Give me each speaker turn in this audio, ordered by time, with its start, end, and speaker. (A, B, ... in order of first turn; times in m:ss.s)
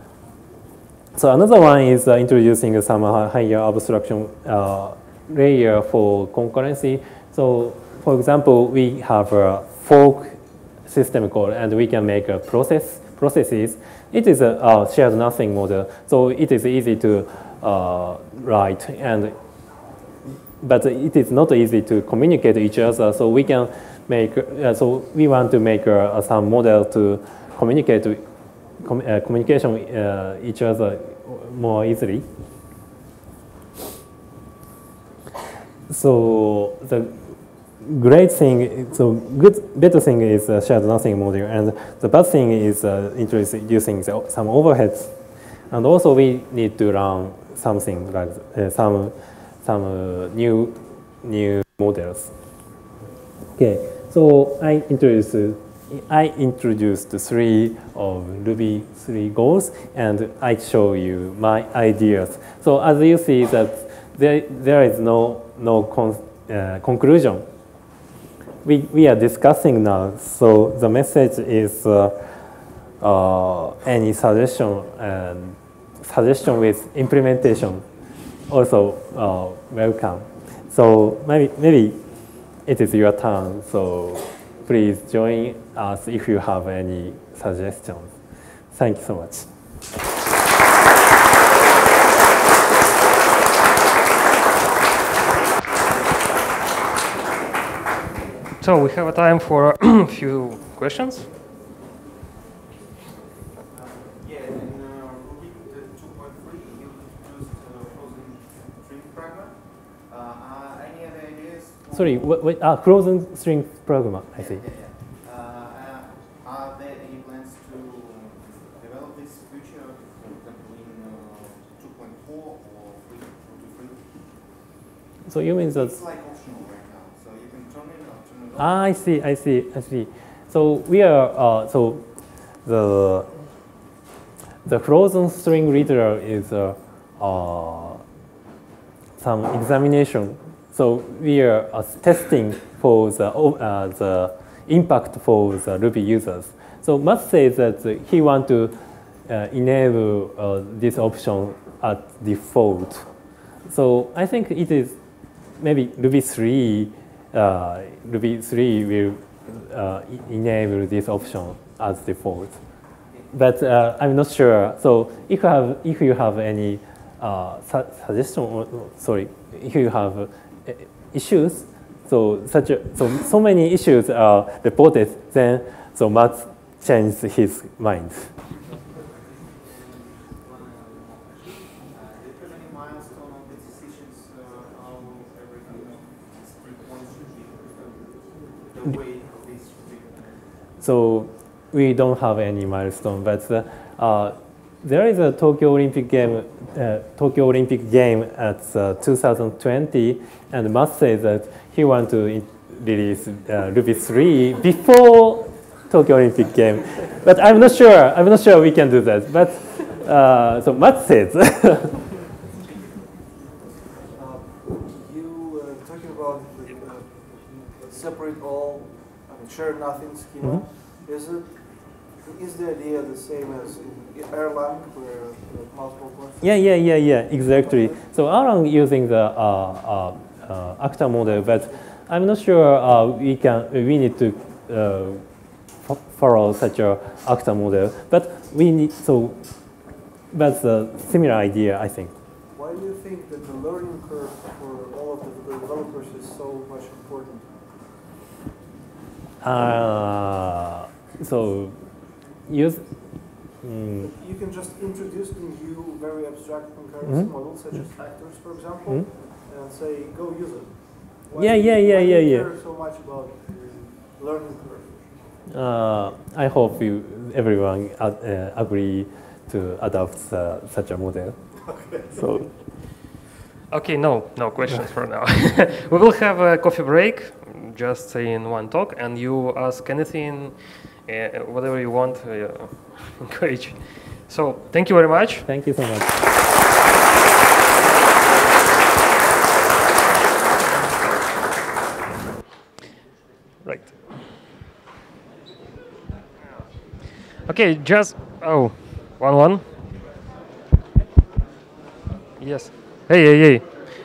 0:01.2-0:10.3 A
0:10.9-0:19.3 A
0:20.6-0:28.2 A
0:28.8-0:32.2 A
0:35.9-0:37.1 A
0:37.8-0:45.1 A
0:45.7-0:52.3 A
0:53.6-1:07.4 A
1:08.6-1:12.2 A
1:13.0-1:17.8 A
1:18.5-1:22.0 A
1:22.6-1:28.2 A
1:28.7-1:29.5 A
1:38.6-1:41.3 B
1:43.7-1:52.4 C
1:51.9-1:54.6 A
1:54.3-2:04.1 C
2:05.3-2:06.0 A
2:05.6-2:09.0 C
2:08.6-2:12.0 A
2:12.6-2:13.3 A
2:14.6-2:18.0 A
2:19.2-2:28.8 A
2:29.3-2:33.1 A
2:33.7-2:35.0 A
2:35.6-2:42.6 A
2:43.3-2:58.3 A
2:58.9-3:10.4 C
3:10.8-3:32.0 A
3:34.1-3:46.7 D
3:46.4-3:55.2 A
3:47.5-3:48.0 D
3:55.8-3:59.4 A
4:00.3-4:02.1 A
4:02.5-4:07.6 D
4:09.4-4:11.8 A
4:12.5-4:12.8 A
4:13.6-4:14.1 A
4:14.0-4:25.1 D
4:17.0-4:17.3 A
4:21.4-4:22.5 A
4:25.5-4:31.4 A
4:31.6-4:32.2 D
4:32.1-4:32.5 A
4:33.7-4:45.4 B
4:45.4-4:46.2 A
4:53.6-4:54.0 B
4:57.4-4:59.6 B
5:02.4-5:03.7 B